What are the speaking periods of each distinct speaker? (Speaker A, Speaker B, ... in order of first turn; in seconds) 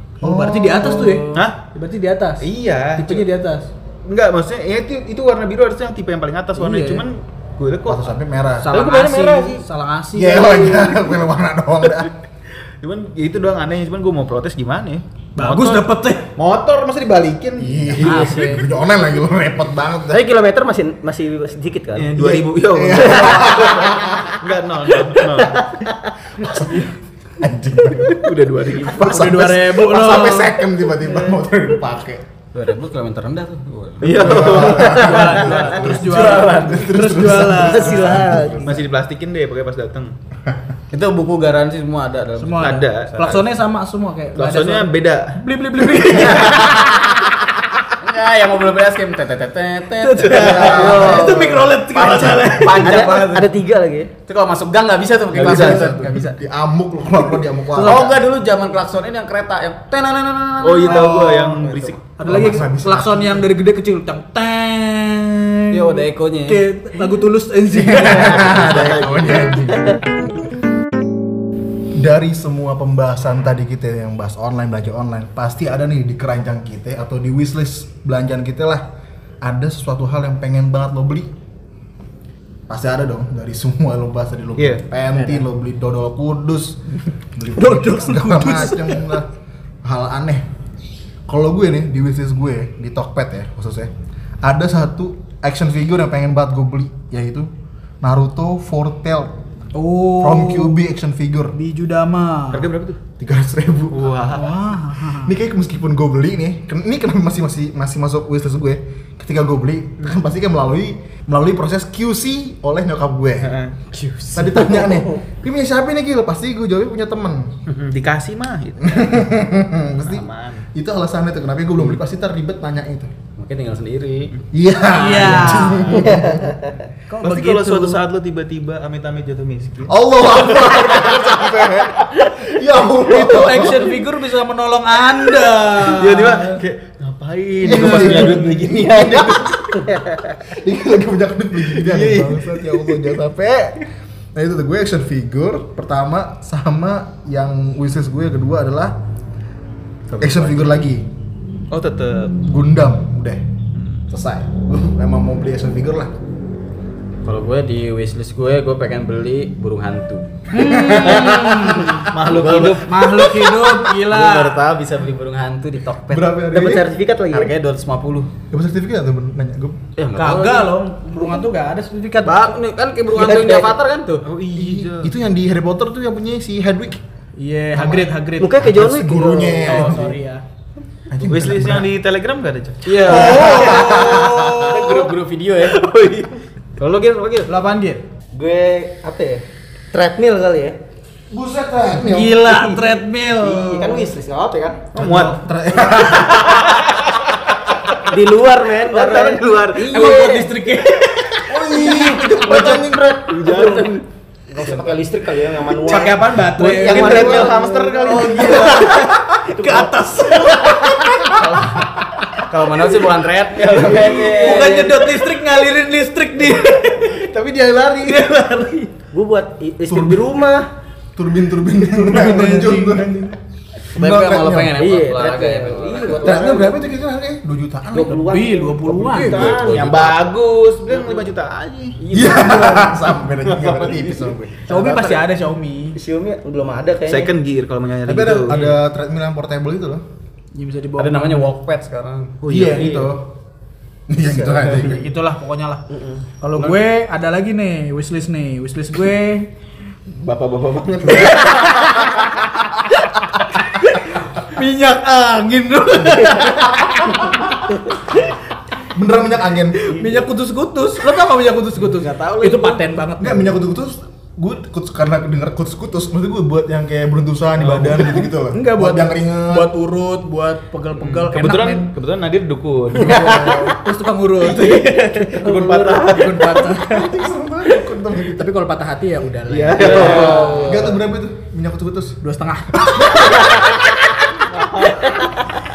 Speaker A: 0.2-3.7, 6.5-7.1, 8.6-11.0, 15.4-16.3, 18.0-18.6, 28.9-30.6, 34.6-38.7, 42.4-47.2, 50.0-53.5, 57.8-58.0, 60.9-61.6, 62.2-68.7, 87.6-89.2, 99.7-100.8, 101.5-102.7, 104.3-105.3, 124.9-125.9, 127.1-128.0, 133.0-136.6, 137.7-138.3, 160.5-162.1, 162.7-164.7, 170.2-172.4, 177.4-178.6, 179.6-180.4, 182.9-184.7, 187.5-188.0, 191.9-194.1, 199.9-201.4, 205.8-211.5, 214.1-217.2, 218.0-218.9, 221.9-223.1, 228.1-229.5, 234.7-236.0, 240.6-241.5, 244.8-245.8, 246.4-249.5, 251.2-252.2, 253.7-258.3, 259.8-263.6, 268.5-271.9, 272.9-277.2, 278.3-280.5, 282.2-283.7
Speaker B: 0.2-1.2, 7.9-8.7, 10.2-12.1, 17.6-20.2, 22.2-24.4, 26.4-32.2, 34.0-38.7, 50.5-51.1, 55.4-58.2, 62.3-63.4, 67.7-70.0, 72.0-78.8, 79.4-81.3, 82.7-89.3, 89.8-90.5, 91.3-93.9, 94.4-97.5, 98.0-99.4, 100.2-101.6, 103.2-104.0, 105.0-113.6, 114.3-117.6, 118.8-123.1, 124.5-126.6, 129.9-134.0, 137.6-139.7, 140.4-143.8, 144.3-149.0, 150.2-151.1, 152.4-153.4, 154.1-156.1, 160.6-161.2, 166.1-166.9, 168.5-169.8, 174.5-177.0, 177.7-180.2, 181.1-181.9, 183.1-184.3, 191.3-192.5, 195.0-196.7, 201.4-203.1, 206.7-207.5, 219.9-220.3, 221.2-223.4, 223.9-224.8, 226.1-228.2, 232.1-234.7, 238.1-240.0, 242.5-243.3, 244.1-245.1, 258.9-260.0, 263.2-269.7, 276.7-278.5, 280.1-282.2
Speaker C: 1.3-1.6, 2.4-3.2, 4.0-8.2, 8.7-9.6, 12.8-18.5, 21.9-25.7, 28.1-29.1, 34.0-35.9, 38.6-40.1, 42.6-43.5, 44.4-45.3, 50.2-51.1, 52.1-52.5, 55.3-55.9, 60.6-62.3, 68.0-69.5, 84.6-84.8, 102.5-103.0, 103.9-104.5, 113.4-113.8, 117.7-119.2, 120.1-120.7, 127.2-132.5, 135.8-139.9, 141.7-143.2, 151.7-152.4, 153.8-154.0, 162.1-162.9, 174.2-175.1, 181.2-187.5, 194.9-198.0, 198.8-200.3, 202.8-204.0, 206.6-209.1, 213.6-214.9, 216.8-218.2, 229.1-232.0, 233.5-234.0, 237.1-238.8, 242.4-243.1, 250.1-252.7, 267.6-268.3, 271.0-273.5, 274.4-276.7, 279.5-280.5, 284.5-285.3
Speaker D: 20.1-22.1, 22.9-23.9, 25.1-26.1, 35.5-36.8, 37.6-38.8, 50.7-51.8, 52.6-54.1, 85.1-85.4, 125.9-126.7, 139.9-140.3, 166.5-167.5, 171.2-171.4, 173.1-173.8, 178.4-179.8, 183.5-183.8, 188.3-190.8, 192.4-194.8, 198.1-200.5, 201.5-206.2, 206.8-207.5, 208.3-210.7, 211.3-211.8, 213.7-214.9, 219.1-220.7, 224.7-226.8, 227.9-230.1, 230.9-231.3, 232.0-233.1, 234.7-235.2, 235.9-237.3, 242.7-243.1, 244.2-244.8, 245.9-246.2, 279.9-281.0, 283.3-283.6
Speaker E: 32.5-34.8, 36.0-36.8, 40.9-42.7, 48.0-51.3, 51.9-53.3, 54.3-56.4, 57.8-61.1, 61.6-62.0, 65.7-66.6, 113.9-114.9, 123.4-124.4, 150.1-150.7, 157.2-166.4, 167.3-168.3, 170.0-170.8, 172.2-174.2, 179.7-180.0, 182.9-185.8, 204.6-205.0, 212.5-214.6, 223.9-226.5, 229.2-230.2, 241.0-242.4, 262.1-262.8, 279.9-280.9